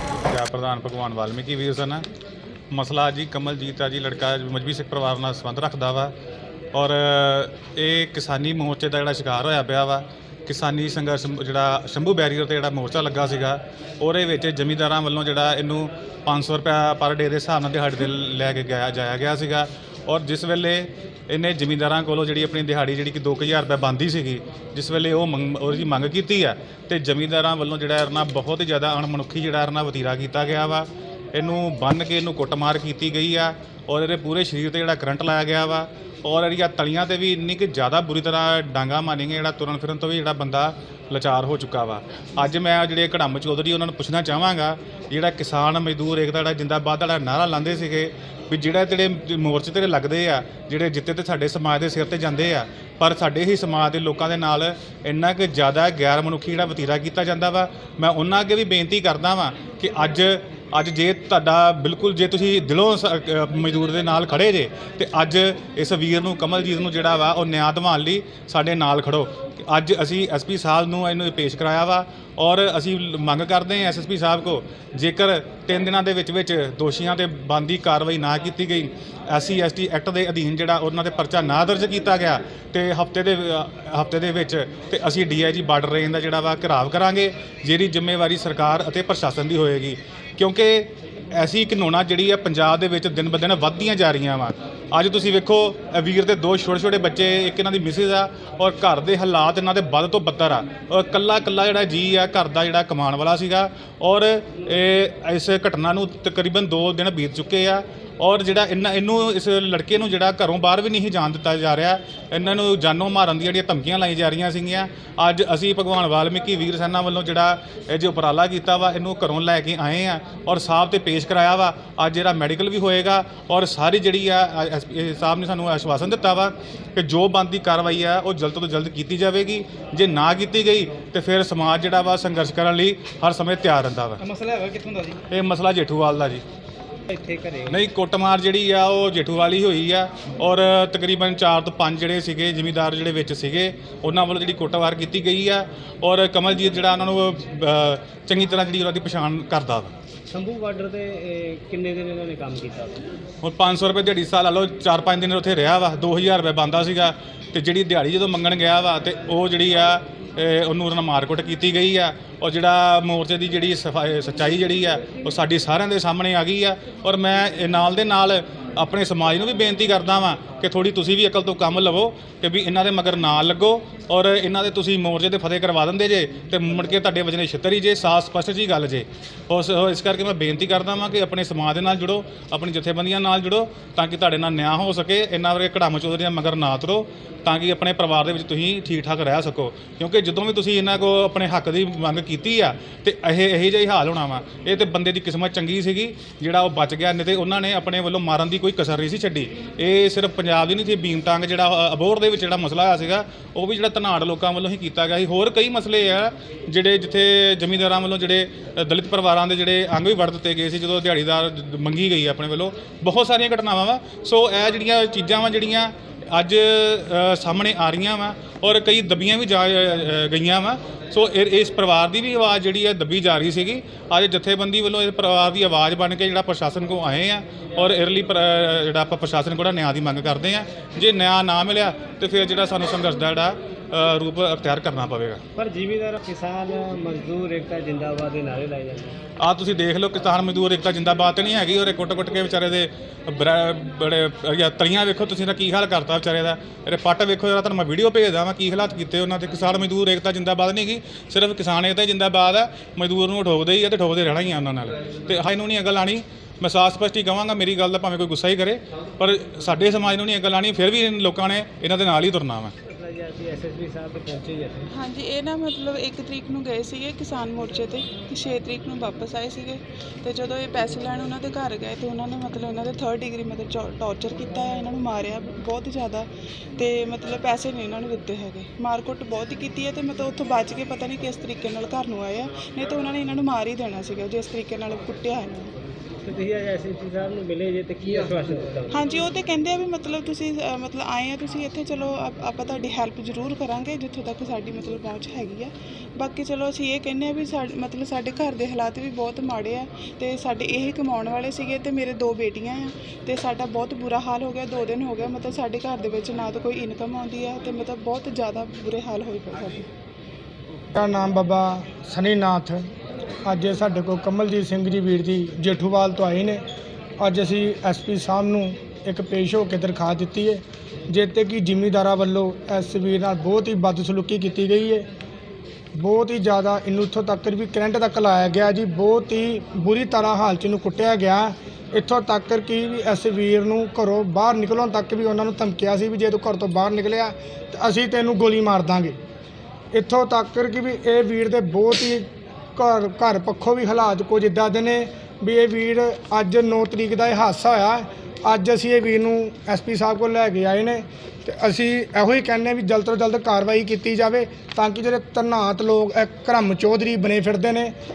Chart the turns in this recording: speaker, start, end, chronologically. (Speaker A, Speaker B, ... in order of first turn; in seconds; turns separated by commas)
Speaker A: 0.2-2.0, Speaker A: 2.7-6.1, Speaker A: 6.7-134.2, Speaker B: 134.3-135.2, Speaker A: 135.3-136.4, Speaker B: 137.1-137.8, Speaker A: 137.7-149.9, Speaker B: 150.3-153.0, Speaker A: 153.4-235.4, Speaker B: 235.6-239.2, Speaker A: 239.4-262.7, Speaker B: 262.9-264.9, Speaker C: 264.9-285.8, Speaker B: 286.2-289.1, Speaker C: 288.9-309.9, Speaker D: 310.9-312.9, Speaker D: 313.4-316.6, Speaker D: 317.2-325.1, Speaker D: 325.9-339.2, Speaker D: 339.9-357.9